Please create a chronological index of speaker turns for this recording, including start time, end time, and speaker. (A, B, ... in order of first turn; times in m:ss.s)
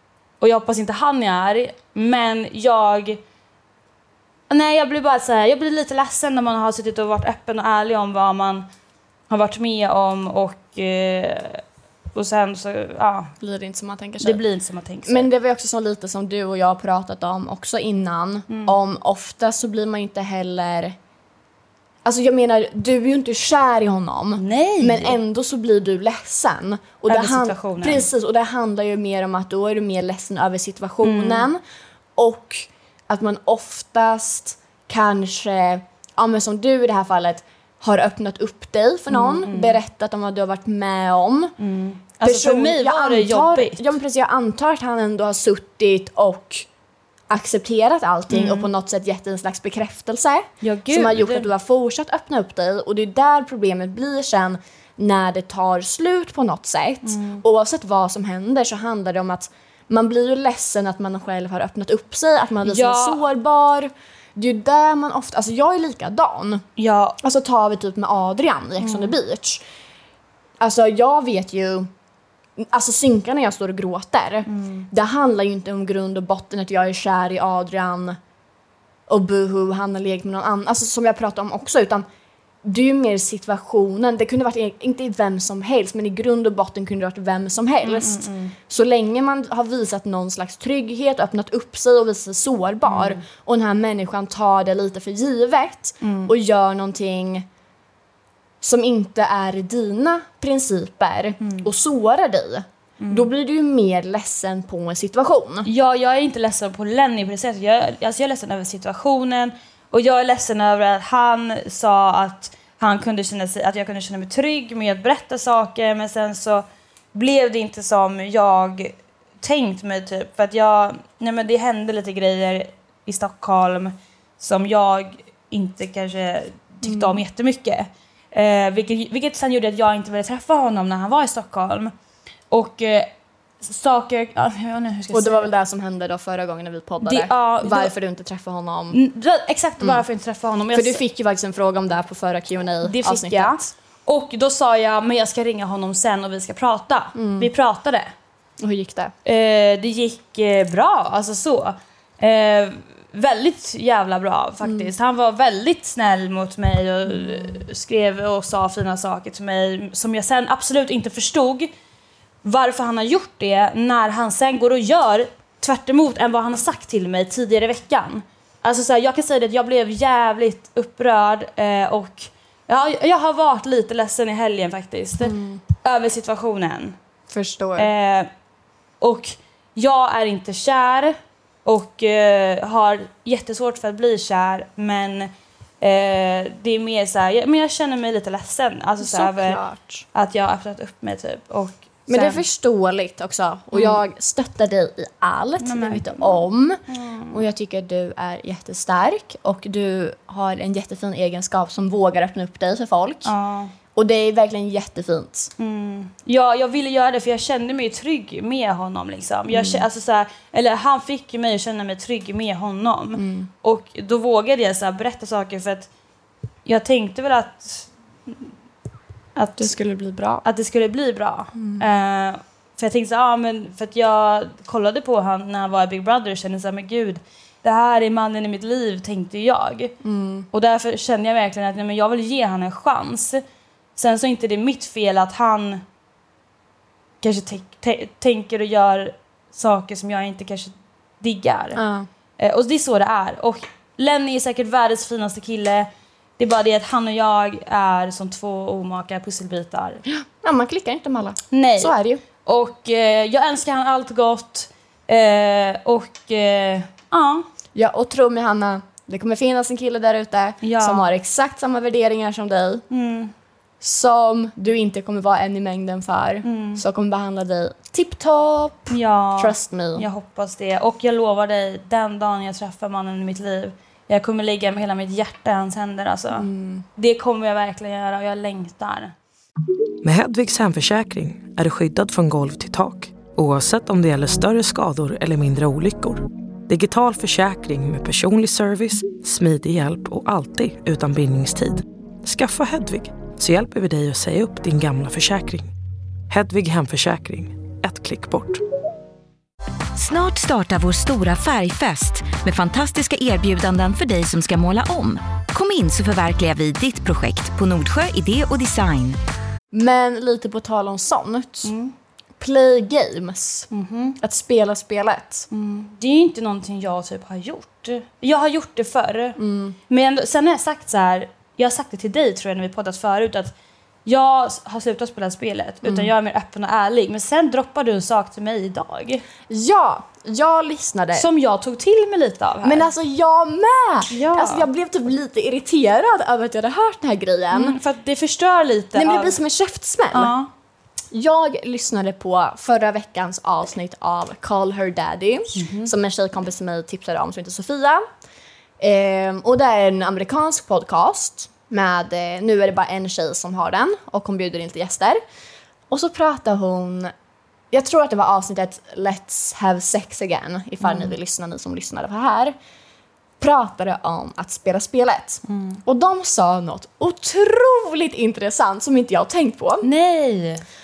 0:00.4-0:03.2 A
0:04.5-0:08.7 A
0:09.3-0:11.6 A
0:12.1-0:13.3 A
0:13.4-0:14.4 B
0:14.2-0:15.3 A
0:15.0-0:21.0 B
0:18.5-0:18.8 A
0:22.0-0:31.6 B
0:24.4-0:25.2 A
0:27.1-0:28.1 A
0:31.0-0:31.5 A
0:32.2-0:41.5 B
0:39.1-0:39.8 A
0:41.6-0:43.9 A
0:42.2-0:46.7 B
0:47.3-1:06.6 B
0:48.3-0:48.7 A
0:50.6-0:51.5 A
0:57.0-0:57.4 A
1:02.6-1:03.2 A
1:06.8-1:07.2 A
1:07.2-1:09.6 B
1:08.8-1:09.1 A
1:10.6-1:11.9 B
1:12.6-1:18.2 B
1:14.5-1:14.9 A
1:19.1-1:22.0 B
1:22.6-1:37.4 B
1:27.8-1:28.5 A
1:32.9-1:33.2 A
1:36.0-1:36.3 A
1:38.6-1:45.7 B
1:43.0-1:43.3 A
1:45.6-2:11.9 A
2:06.8-2:07.2 B
2:12.5-2:13.1 A
2:13.6-2:15.5 A
2:15.1-2:19.0 B
2:17.0-2:17.9 A
2:18.9-2:21.0 A
2:20.7-2:23.7 B
2:22.8-2:28.1 A
2:27.2-2:27.5 B
2:28.6-2:29.1 B
2:29.2-2:41.7 A
2:34.6-2:34.9 B
2:37.2-2:37.5 B
2:42.4-2:57.0 A
2:55.2-2:55.6 B
2:57.3-2:57.9 B
2:57.8-2:58.3 A
2:59.0-3:09.6 A
3:09.0-3:10.0 B
3:10.1-3:12.4 A
3:12.1-3:16.8 B
3:13.7-3:14.0 A
3:15.6-3:17.4 A
3:17.3-3:23.3 B
3:23.2-3:23.7 A
3:24.0-3:25.5 B
3:25.6-3:35.9 A
3:29.5-3:29.8 B
3:33.2-3:33.5 B
3:36.7-3:38.5 A
3:39.4-3:39.7 A
3:39.6-3:40.4 B
3:40.4-3:50.0 A
3:41.6-3:41.8 B
3:50.0-3:50.5 B
3:50.5-3:53.4 A
3:54.0-3:55.8 A
3:57.2-4:01.8 A
4:01.8-4:02.1 B
4:02.4-4:10.0 A
4:10.0-4:12.2 B
4:11.5-4:17.5 A
4:17.8-4:22.8 B
4:20.6-4:21.1 A
4:22.9-4:23.3 A
4:23.8-4:30.0 B
4:26.4-4:26.8 A
4:28.9-4:39.1 A
4:36.3-4:36.8 B
4:40.0-4:55.7 C
4:56.3-4:58.6 C
5:00.0-5:09.2 D
5:09.7-5:11.7 B
5:11.6-5:11.9 A
5:12.4-5:13.7 B
5:13.7-5:14.2 A
5:14.2-5:15.5 B
5:15.5-5:23.5 A
5:19.4-5:19.8 B
5:24.0-5:29.2 A
5:25.8-5:26.1 B
5:29.5-5:31.3 B
5:31.1-5:32.9 A
5:32.6-5:37.8 B
5:34.1-5:34.7 A
5:37.5-5:39.4 A
5:39.0-5:40.3 B
5:40.1-5:40.5 A
5:41.1-5:48.0 B
5:45.5-5:45.9 A
5:48.8-5:55.2 B
5:55.9-5:57.1 B
5:57.7-6:02.5 B
6:00.8-6:01.1 A
6:03.4-6:09.9 B
6:05.5-6:05.8 A
6:09.8-6:10.6 A